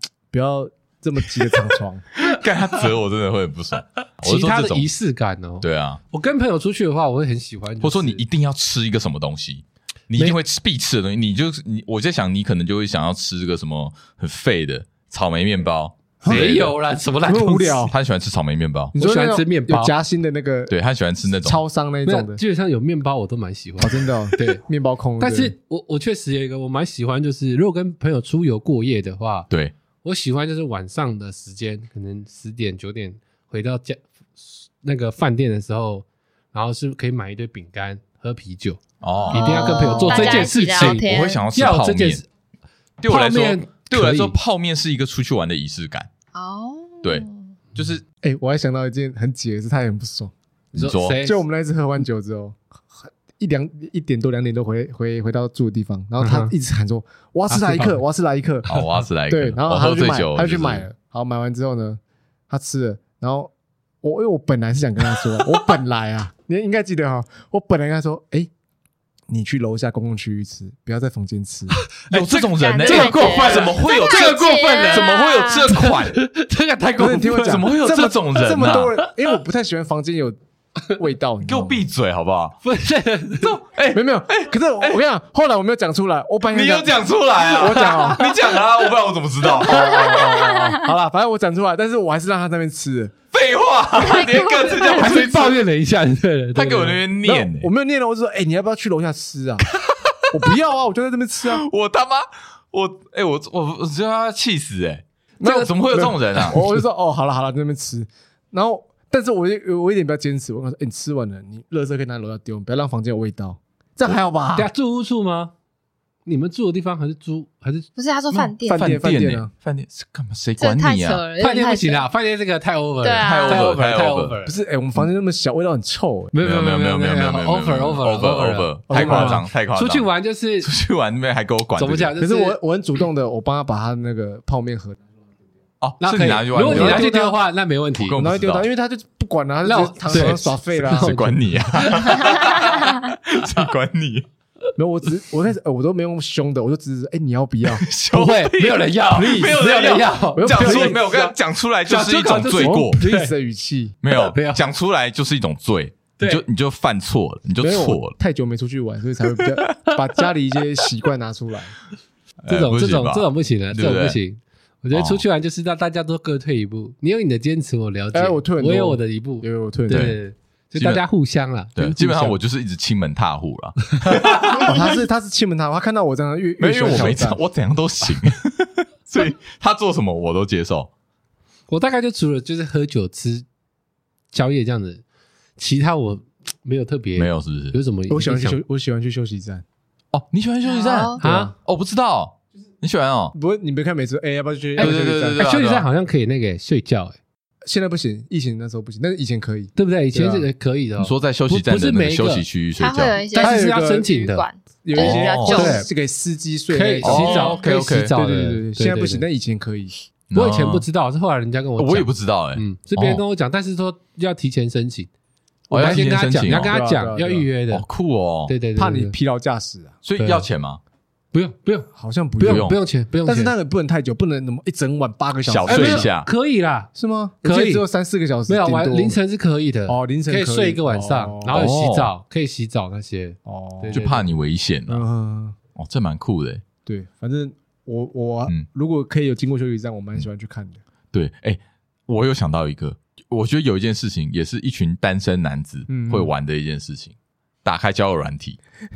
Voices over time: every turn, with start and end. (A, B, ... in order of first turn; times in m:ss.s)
0:00.3-0:02.1 A
0:02.2-0:04.9 B
0:04.2-0:08.2 C
0:05.6-0:06.0 B
0:07.8-0:16.7 B
0:16.2-0:16.5 A
0:16.2-0:17.9 C
0:17.2-0:17.9 A
0:17.9-0:19.0 B
0:18.9-0:20.7 A
0:19.0-0:19.9 C
0:20.7-0:21.6 B
0:21.4-0:22.4 A
0:22.1-0:24.6 C
0:23.8-0:25.5 A
0:25.2-0:29.5 C
0:30.0-0:42.2 C
0:39.0-0:42.2 B
0:39.2-0:41.4 D
0:43.0-0:46.1 B
0:43.1-0:44.4 C
0:46.3-0:47.5 D
0:47.0-0:48.0 B
0:48.2-0:50.3 A
0:50.7-0:51.4 C
0:50.8-0:51.2 B
0:51.2-1:08.5 A
0:56.2-0:56.5 C
0:57.5-0:58.0 C
0:58.7-1:00.8 B
0:58.7-0:59.0 C
1:09.3-1:11.8 A
1:11.8-1:17.6 C
1:12.1-1:16.2 B
1:12.5-1:15.7 D
1:17.0-1:21.8 A
1:17.3-1:18.9 B
1:21.4-1:22.6 B
1:22.6-1:23.6 C
1:23.4-1:25.0 B
1:23.9-1:28.3 A
1:26.5-1:30.5 B
1:29.6-1:33.1 A
1:29.6-1:30.8 D
1:33.3-1:35.6 B
1:34.0-1:35.3 D
1:34.7-1:37.0 C
1:36.6-1:37.7 B
1:37.2-1:39.7 A
1:40.3-1:41.6 A
1:41.4-1:46.6 B
1:45.4-1:54.7 A
1:54.6-1:55.5 C
1:56.3-1:57.9 C
1:58.0-1:58.9 D
1:58.4-2:01.2 B
1:58.7-1:59.5 A
2:00.6-2:02.1 D
2:01.4-2:04.5 C
2:03.0-2:03.7 D
2:03.2-2:04.4 B
2:04.4-2:06.3 A
2:06.3-2:10.7 C
2:06.4-2:10.1 B
2:08.9-2:09.4 A
2:10.6-2:12.1 B
2:11.8-2:12.6 C
2:12.2-2:15.0 A
2:15.8-2:17.1 B
2:16.0-2:18.2 C
2:16.5-2:17.4 A
2:18.0-2:18.7 B
2:18.2-2:21.2 A
2:19.6-2:22.1 C
2:20.8-2:24.3 B
2:22.1-2:23.0 D
2:24.8-2:27.8 A
2:27.7-2:33.0 B
2:28.1-2:31.1 C
2:29.2-2:29.6 A
2:30.4-2:31.3 A
2:31.9-2:33.3 C
2:32.6-2:34.0 A
2:34.0-2:38.1 B
2:34.1-2:34.6 C
2:37.6-2:41.7 A
2:42.4-2:44.2 B
2:42.5-2:52.4 C
2:44.9-2:45.2 B
2:48.1-2:50.1 A
2:49.9-2:50.2 B
2:50.8-2:51.0 B
2:51.8-2:54.7 B
2:54.0-2:54.6 C
2:54.6-2:57.4 A
2:56.6-3:00.9 B
3:01.7-3:03.5 C
3:04.3-3:05.0 C
3:05.6-3:08.6 C
3:07.2-3:07.8 B
3:08.1-3:09.6 A
3:10.1-3:13.4 B
3:10.6-3:11.2 D
3:11.2-3:11.5 C
3:11.2-3:11.6 A
3:13.3-3:15.4 A
3:14.8-3:17.2 C
3:14.8-3:15.9 B
3:17.6-3:20.5 A
3:19.8-3:22.5 C
3:21.0-3:23.2 B
3:22.8-3:25.9 D
3:23.3-3:24.5 C
3:23.4-3:24.2 A
3:24.8-3:27.6 A
3:25.0-3:25.6 B
3:25.5-3:25.9 C
3:26.7-3:29.2 C
3:27.0-3:28.1 B
3:27.2-3:27.7 D
3:28.1-3:30.0 A
3:30.3-3:30.8 B
3:30.3-3:35.1 C
3:31.8-3:33.2 B
3:35.7-3:36.8 B
3:35.7-3:37.8 C
3:36.6-3:37.5 A
3:37.7-3:38.5 B
3:38.5-3:39.1 C
3:38.8-3:40.0 A
3:40.0-3:40.8 B
3:40.2-3:40.5 C
3:41.3-3:43.6 C
3:41.9-3:46.1 A
3:42.4-3:42.8 B
3:45.5-3:46.3 B
3:45.7-3:46.9 C
3:47.0-3:49.2 A
3:47.4-3:47.8 C
3:48.5-3:54.3 C
3:49.9-3:51.7 A
3:51.5-3:52.1 B
3:53.5-3:54.0 A
3:53.9-3:55.1 B
3:54.9-3:55.6 A
3:55.8-3:56.6 B
3:56.9-4:00.8 A
4:01.1-4:08.6 B
4:05.9-4:06.3 A